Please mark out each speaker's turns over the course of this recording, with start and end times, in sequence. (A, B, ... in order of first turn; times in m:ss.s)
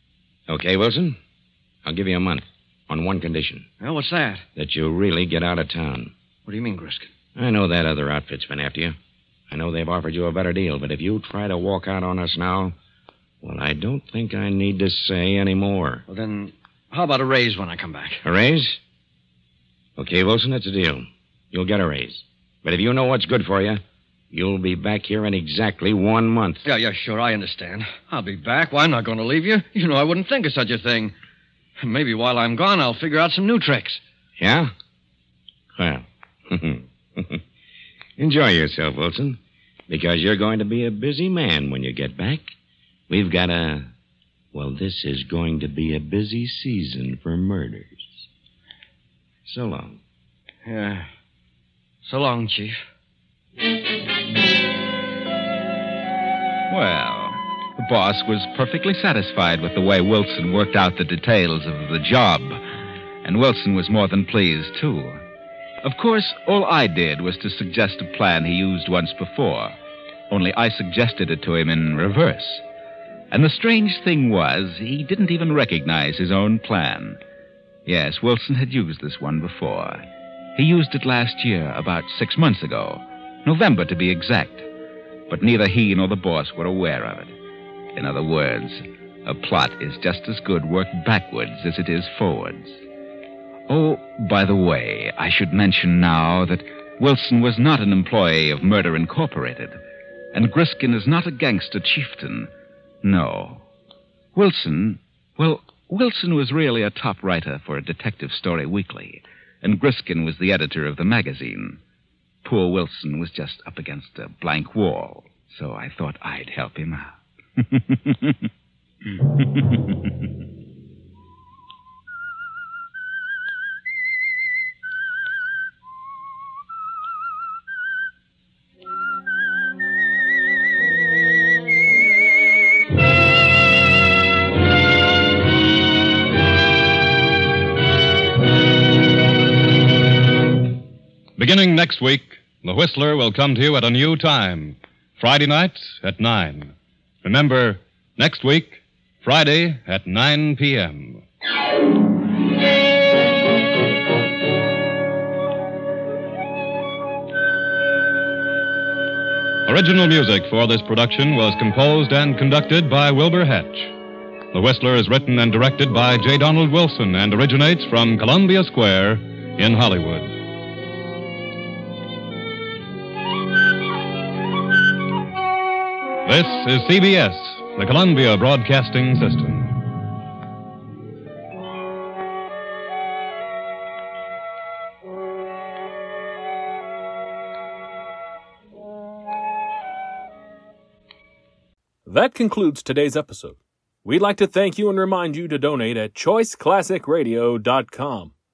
0:00.5-0:01.2 A
0:01.8-0:03.6 A
0:03.8-0:04.4 B
0:04.6-0:06.1 A
0:06.4-0:07.1 B
0:07.4-0:09.0 A
0:09.5-0:12.7 A
0:13.4-0:16.0 A
0:16.1-0:18.2 B
0:18.2-0:18.8 A
0:20.0-0:26.6 A
0:26.6-0:31.1 B
0:31.8-0:34.0 B
0:34.4-0:34.7 A
0:35.8-0:37.4 A
0:38.2-0:42.5 A
0:43.1-0:43.9 A
0:44.5-0:48.2 A
0:49.4-0:50.0 A
0:50.6-0:51.1 B
0:52.0-0:52.8 B
0:56.7-1:02.6 C
1:03.2-1:05.2 C
1:05.8-1:09.7 C
1:10.3-1:12.6 C
1:13.3-1:17.2 C
1:17.8-1:20.0 C
1:20.6-1:24.7 C
1:25.3-1:27.3 C
1:27.9-1:32.8 C
1:33.7-1:39.8 C
1:40.3-1:42.5 C
1:43.0-1:43.6 C
1:44.3-1:51.8 C
1:52.4-1:58.5 C
1:59.1-2:00.1 C
2:21.4-2:31.2 D
2:39.6-2:43.9 D
2:44.5-2:50.3 D
2:56.2-2:59.8 D
3:12.0-3:18.3 E